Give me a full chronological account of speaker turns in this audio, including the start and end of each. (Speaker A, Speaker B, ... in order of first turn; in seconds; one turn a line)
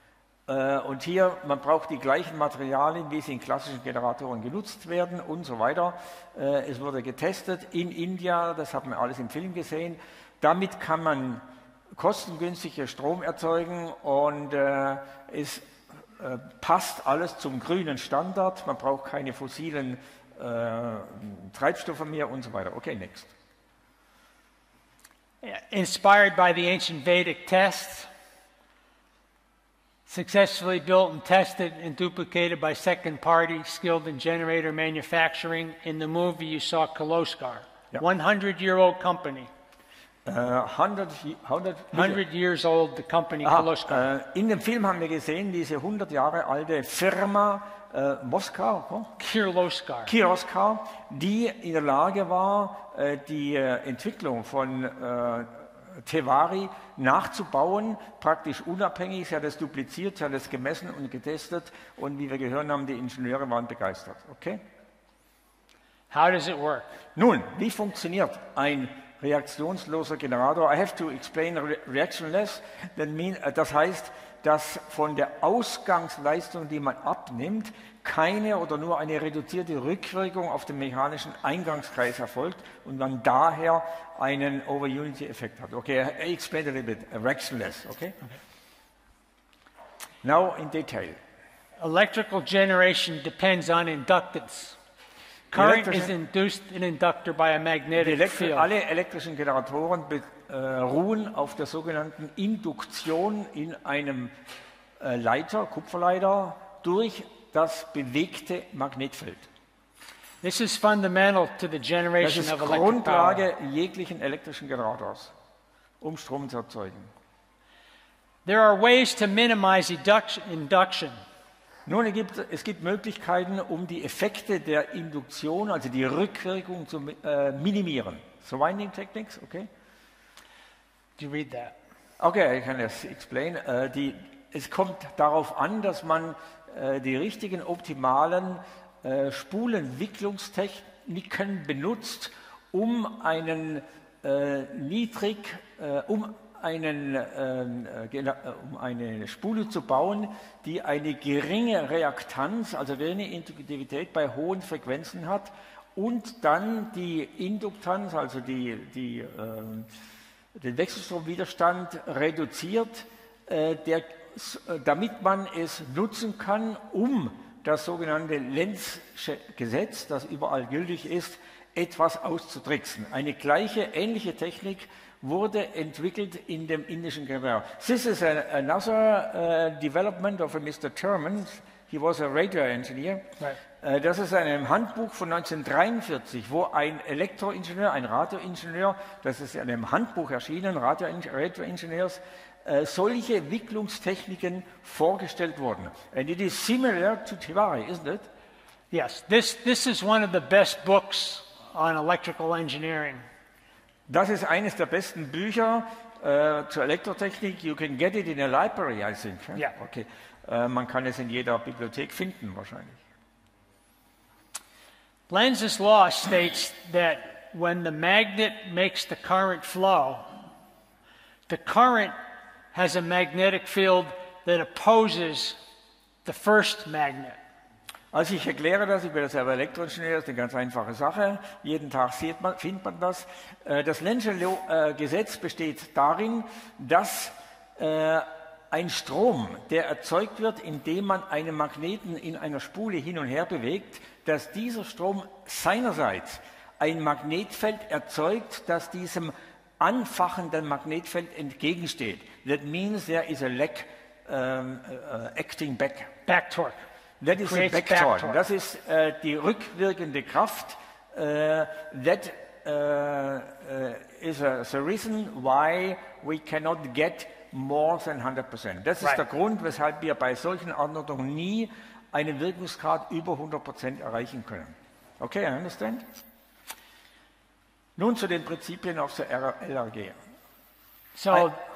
Speaker A: 0.5-23.3
Speaker B: 25.4-28.1
Speaker B: 30.1-39.5
Speaker A: 40.2-42.2
Speaker B: 41.9-44.1
Speaker A: 43.4-49.2
Speaker B: 49.2-50.1
Speaker A: 50.1-64.6
Speaker B: 66.1-66.9
Speaker A: 67.2-88.2
Speaker A: 90.2-91.2
Speaker B: 91.8-94.8
Speaker B: 95.5-98.7
Speaker A: 95.5-96.1
Speaker A: 98.0-104.3
Speaker A: 105.0-109.5
Speaker B: 110.4-113.5
Speaker A: 112.2-115.3
Speaker A: 116.0-117.1
Speaker B: 118.5-121.2
Speaker A: 121.9-129.7
Speaker B: 131.2-131.8
Speaker A: 132.2-159.9
Speaker A: 160.6-198.3
Speaker B: 198.9-203.2
Speaker A: 204.1-213.0
Speaker B: 215.3-220.3
Speaker B: 221.5-222.2
Speaker B: 222.7-225.6
Speaker B: 226.2-227.4
Speaker A: 228.1-256.1
Speaker B: 256.3-256.8
Speaker A: 257.2-276.1
Speaker B: 257.4-258.4
Speaker A: 278.0-280.2
Speaker B: 281.1-281.6
Speaker A: 281.3-281.6